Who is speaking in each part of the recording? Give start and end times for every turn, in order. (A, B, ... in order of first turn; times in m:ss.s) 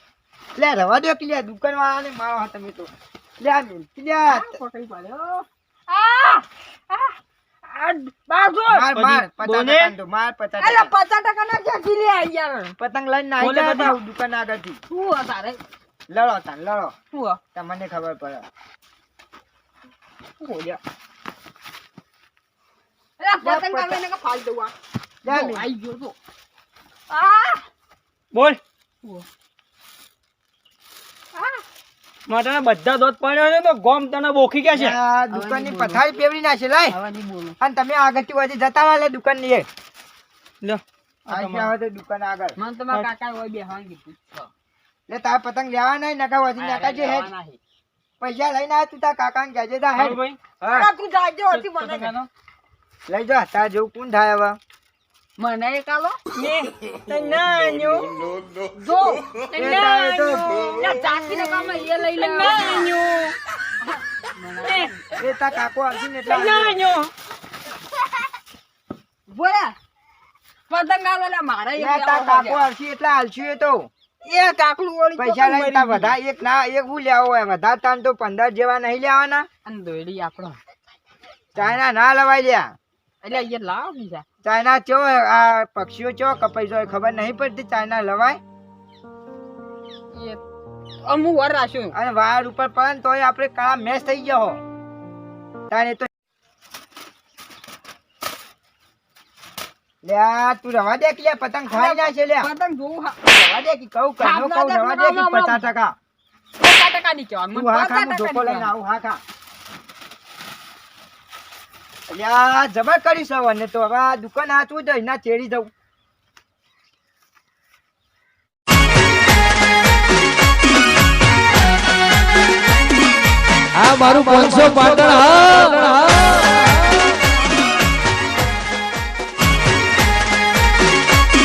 0:00.6-0:04.5 A
0:04.3-0:08.9 B
0:08.7-0:10.9 A
0:08.9-0:10.0 C
0:10.6-0:12.7 B
0:12.8-0:14.8 A
0:13.4-0:14.0 C
0:14.9-0:15.6 B
0:16.1-0:16.9 A
0:17.1-0:17.4 B
0:17.5-0:18.4 A
0:20.4-0:20.8 B
0:23.2-0:24.7 B
0:23.4-0:24.0 A
0:25.2-0:25.6 A
0:25.3-0:26.2 B
0:27.1-0:27.6 B
0:28.3-0:28.6 C
0:31.3-0:31.6 B
0:32.3-0:35.0 C
0:34.7-0:37.0 A
0:35.3-0:36.0 B
0:36.9-0:37.6 B
0:37.6-0:39.7 A
0:40.6-0:41.7 C
0:41.3-0:43.1 A
0:42.6-0:44.5 B
0:45.1-0:47.3 A
0:46.6-0:47.6 B
0:48.2-0:50.9 A
0:50.0-0:50.4 C
0:50.7-0:52.1 B
0:51.5-0:52.3 C
0:53.1-0:54.6 A
0:55.4-0:56.2 B
0:56.3-0:58.4 C
0:58.8-1:02.9 B
0:59.6-1:00.6 A
0:59.6-1:01.2 C
1:02.2-1:03.4 C
1:03.8-1:05.1 B
1:04.6-1:04.9 C
1:05.2-1:06.8 A
1:06.3-1:07.1 C
1:09.3-1:09.8 B
1:10.7-1:12.7 B
1:11.8-1:13.9 A
1:14.2-1:16.1 B
1:15.2-1:19.5 A
1:19.6-1:20.6 B
1:21.6-1:22.7 A
1:23.2-1:24.2 B
1:24.4-1:28.4 A
1:30.1-1:30.4 B
1:31.0-1:32.0 B
1:31.9-1:34.6 A
1:35.7-1:36.1 A
1:40.0-1:42.5 A
1:41.7-1:43.2 B
1:43.2-1:46.0 A
1:44.2-1:45.6 B
1:46.6-1:48.7 B
1:47.5-1:49.2 A
1:52.1-1:55.7 A
2:03.8-2:06.0 D